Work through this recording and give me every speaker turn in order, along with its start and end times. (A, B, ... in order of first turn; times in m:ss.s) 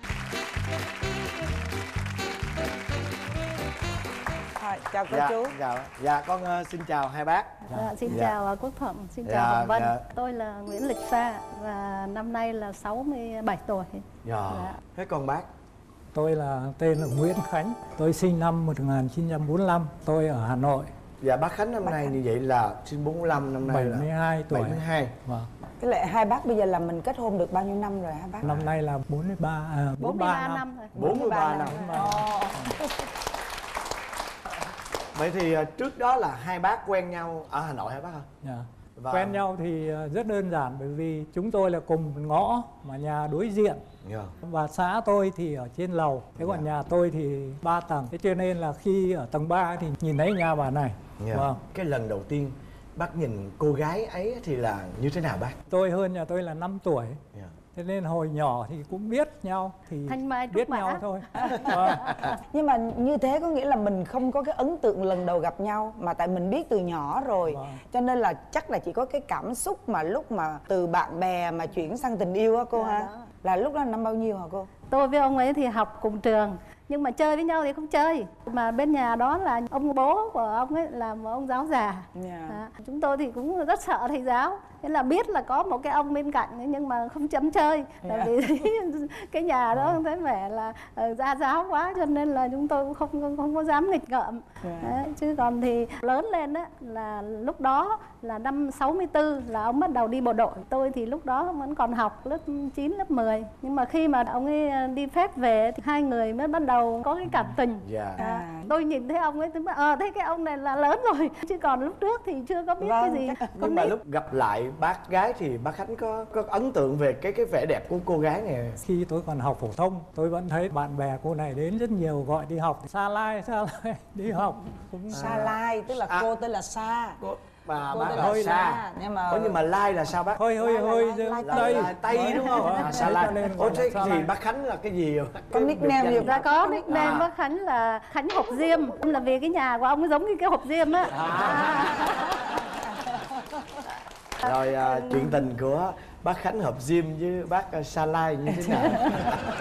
0:04.6-0:05.6 A
0:05.1-0:08.3 B
0:07.7-0:08.0 C
0:07.7-0:14.8 D
0:09.2-0:10.0 B
0:14.2-0:15.5 B
0:16.1-0:20.9 C
0:21.2-0:25.1 B
0:23.7-0:25.5 C
0:25.8-0:28.6 A
0:28.4-0:32.8 C
0:30.0-0:31.8 D
0:31.0-0:32.1 B
0:31.0-0:33.1 A
0:35.1-0:38.3 B
0:38.4-0:43.8 C
0:39.0-0:39.4 B
0:44.0-0:44.3 B
0:44.4-0:51.6 C
0:46.4-0:46.7 B
0:51.2-0:55.6 B
0:55.7-0:57.2 C
0:57.7-1:02.2 C
1:00.1-1:01.0 D
1:01.4-1:14.7 A
1:02.1-1:02.3 B
1:07.4-1:07.8 C
1:12.7-1:13.3 D
1:14.9-1:54.0 D
1:22.2-1:22.6 A
1:28.0-1:28.4 A
1:34.6-1:35.0 A
1:47.8-1:48.2 B
1:48.2-1:48.7 A
1:52.8-1:53.5 A
1:53.6-1:58.8 B
1:58.8-2:05.4 C
2:05.1-2:07.2 A
2:05.1-2:06.3 B
2:07.2-2:10.4 B
2:07.8-2:09.6 A
2:08.1-2:08.7 C
2:10.4-2:14.3 C
2:10.6-2:12.0 A
2:11.4-2:17.3 B
2:15.5-2:17.2 A
2:16.2-2:22.6 D
2:21.1-2:22.0 B
2:24.4-2:29.5 B
2:24.4-2:25.2 D
2:28.6-2:29.0 A